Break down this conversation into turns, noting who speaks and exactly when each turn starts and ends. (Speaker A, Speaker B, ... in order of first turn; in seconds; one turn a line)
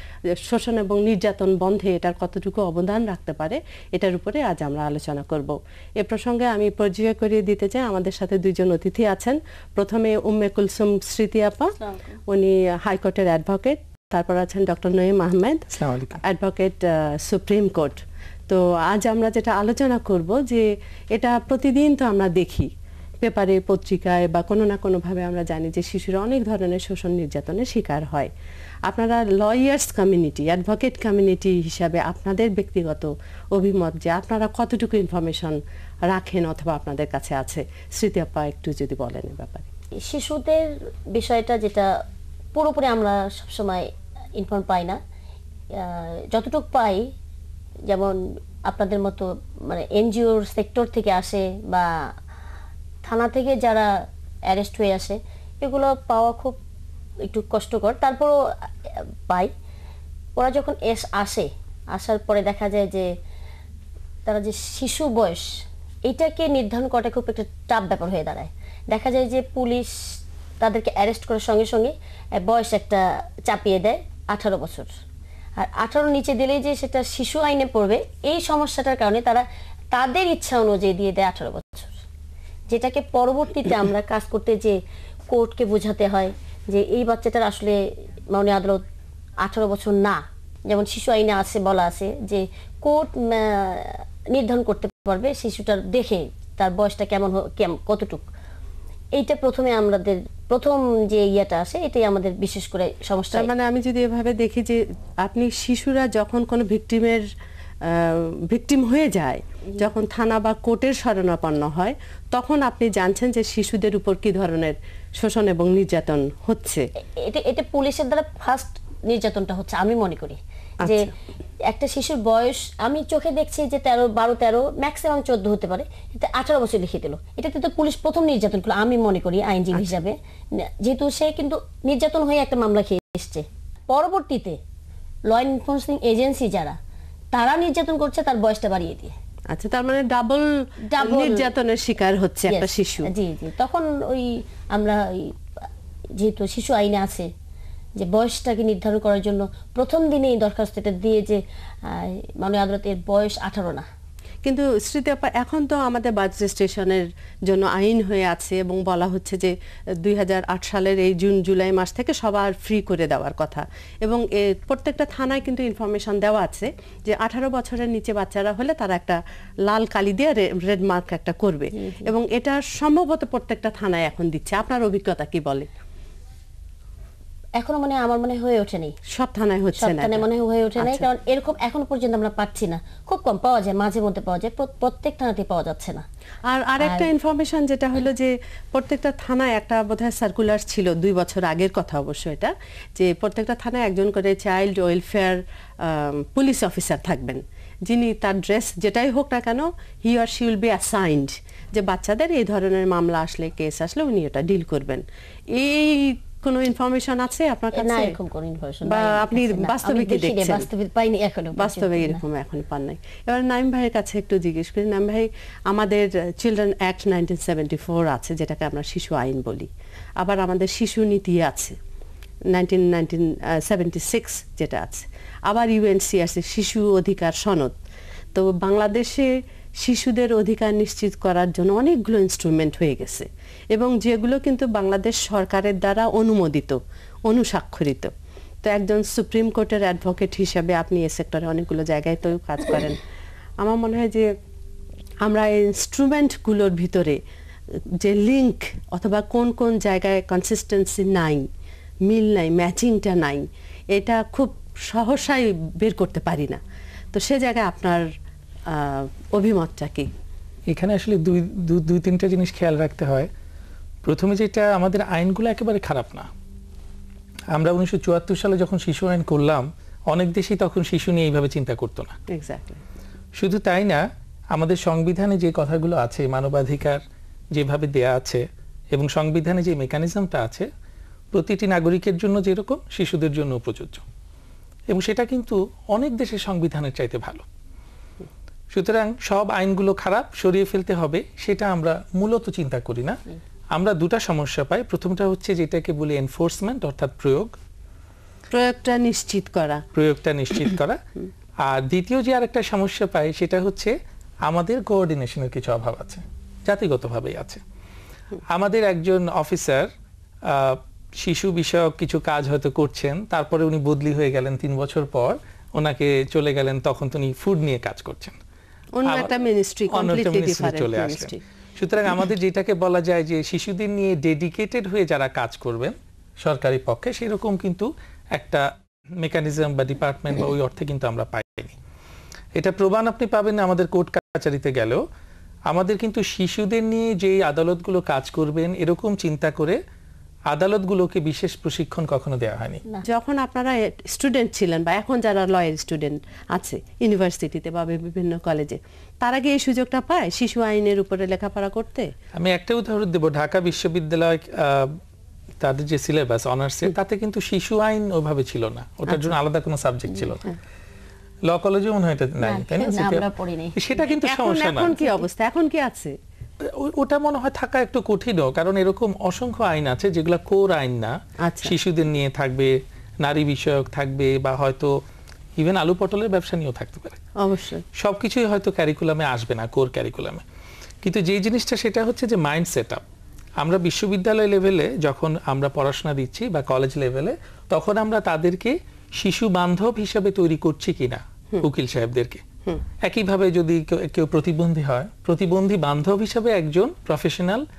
Speaker A: 0.4-11.7
Speaker A: 12.3-22.7
Speaker B: 15.7-16.2
Speaker A: 23.2-28.3
Speaker A: 28.9-39.7
Speaker C: 40.0-41.9
Speaker C: 42.5-45.0
Speaker C: 45.7-47.1
Speaker C: 47.9-52.1
Speaker C: 53.0-56.6
Speaker C: 57.2-59.5
Speaker C: 60.4-63.1
Speaker C: 64.2-74.9
Speaker C: 75.6-81.9
Speaker C: 82.7-84.8
Speaker C: 85.3-88.8
Speaker C: 89.4-98.2
Speaker C: 99.1-103.5
Speaker A: 103.3-107.2
Speaker A: 107.8-116.9
Speaker C: 117.2-121.1
Speaker A: 120.8-121.1
Speaker C: 121.7-134.6
Speaker C: 135.3-136.8
Speaker C: 137.3-139.1
Speaker A: 139.5-143.1
Speaker C: 140.9-141.5
Speaker C: 142.5-145.4
Speaker C: 146.2-147.3
Speaker C: 148.0-153.9
Speaker A: 154.4-175.7
Speaker C: 171.8-172.1
Speaker C: 177.6-179.0
Speaker A: 179.1-180.2
Speaker C: 179.8-186.0
Speaker A: 180.8-181.1
Speaker A: 186.4-208.2
Speaker C: 186.8-187.1
Speaker C: 207.7-212.2
Speaker A: 208.8-210.7
Speaker A: 211.5-221.8
Speaker A: 222.5-227.8
Speaker A: 228.3-238.1
Speaker A: 238.6-243.0
Speaker A: 243.6-244.3
Speaker A: 245.2-247.2
Speaker A: 248.0-251.5
Speaker A: 252.1-256.6
Speaker A: 257.1-258.1
Speaker A: 258.7-260.1
Speaker B: 260.7-263.3
Speaker B: 264.0-266.3
Speaker B: 267.5-272.1
Speaker A: 272.3-272.8
Speaker B: 273.4-277.0
Speaker B: 277.5-280.7
Speaker B: 281.3-284.0
Speaker B: 284.9-287.4
Speaker B: 288.7-293.2
Speaker B: 293.7-297.5
Speaker A: 298.5-299.8
Speaker B: 299.9-301.0
Speaker B: 301.6-303.9
Speaker B: 304.4-307.6
Speaker B: 308.5-309.9
Speaker B: 310.4-318.4
Speaker A: 319.0-321.4
Speaker B: 319.1-319.3
Speaker B: 319.9-328.6
Speaker B: 329.2-331.8
Speaker B: 332.6-335.0
Speaker B: 335.7-339.8
Speaker B: 340.5-342.8
Speaker A: 343.0-352.1
Speaker B: 352.3-355.0
Speaker B: 355.6-360.5
Speaker A: 359.1-359.3
Speaker B: 361.5-365.0
Speaker C: 362.4-363.8
Speaker A: 364.1-366.1
Speaker B: 366.6-374.9
Speaker A: 371.4-371.7
Speaker B: 375.6-377.2
Speaker A: 377.4-377.8
Speaker B: 377.9-380.4
Speaker B: 381.0-383.0
Speaker B: 383.6-392.4
Speaker B: 393.0-397.6